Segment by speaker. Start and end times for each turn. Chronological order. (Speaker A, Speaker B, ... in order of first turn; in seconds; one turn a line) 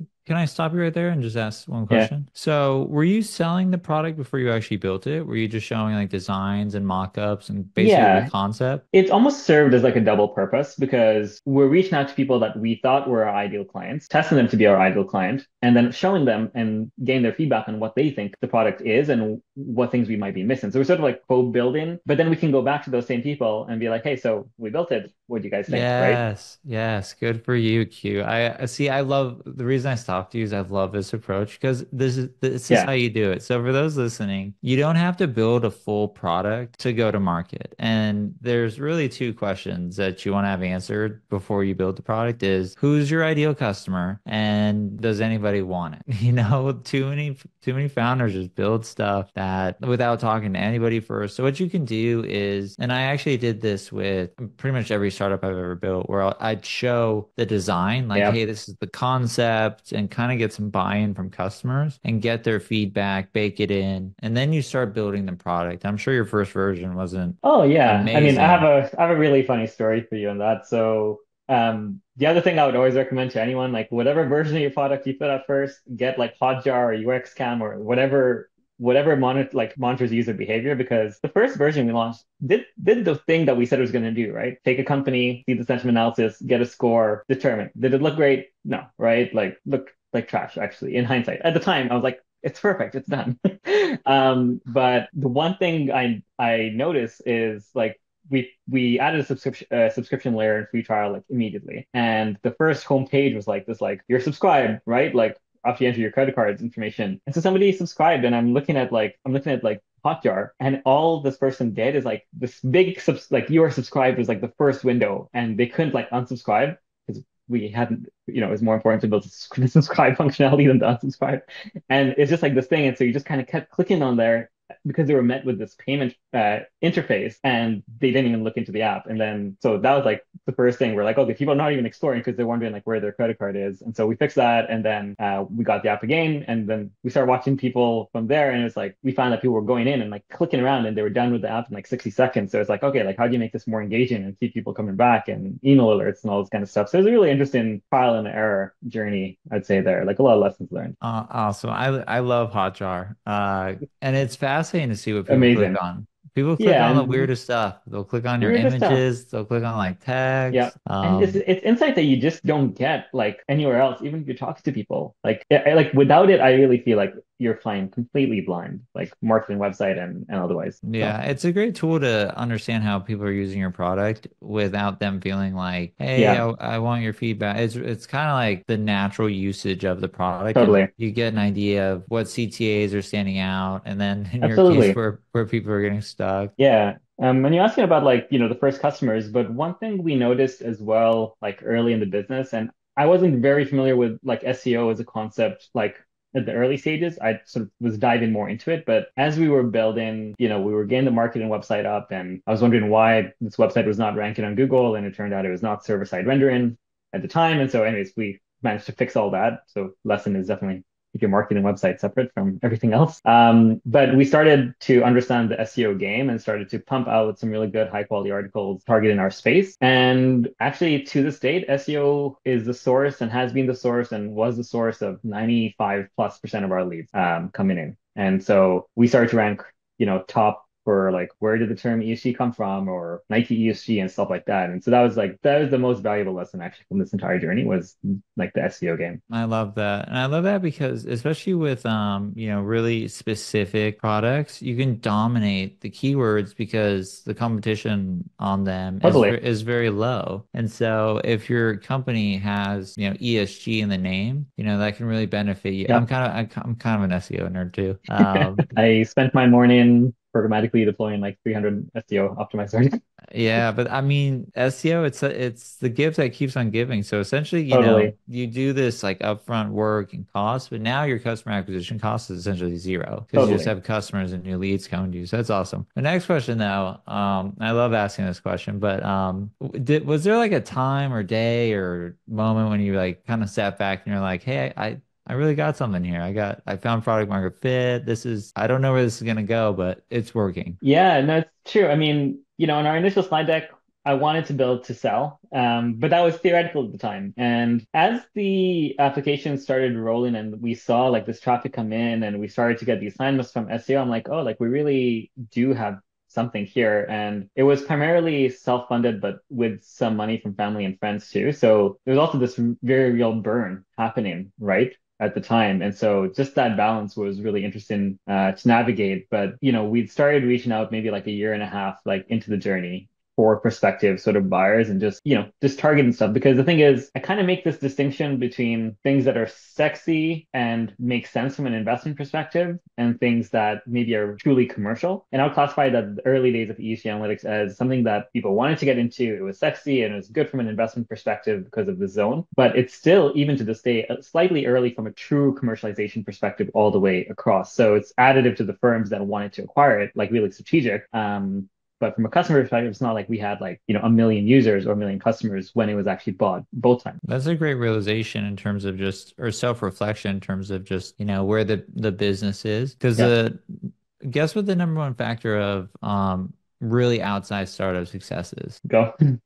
Speaker A: 0.2-8.8
Speaker B: 7.8-8.3
Speaker B: 8.9-26.2
Speaker A: 25.7-68.7
Speaker B: 67.4-150.9
Speaker A: 151.0-161.4
Speaker B: 155.3-155.8
Speaker B: 156.6-157.3
Speaker B: 158.4-159.0
Speaker B: 160.5-171.2
Speaker A: 170.8-186.5
Speaker B: 176.2-176.4
Speaker B: 180.5-180.9
Speaker B: 184.4-185.0
Speaker B: 186.6-239.2
Speaker A: 239.3-258.7
Speaker B: 249.0-249.3
Speaker B: 258.2-263.0
Speaker A: 263.3-290.8
Speaker B: 267.7-268.1
Speaker B: 273.3-273.7
Speaker B: 290.8-357.2
Speaker A: 357.2-368.8
Speaker B: 368.9-369.4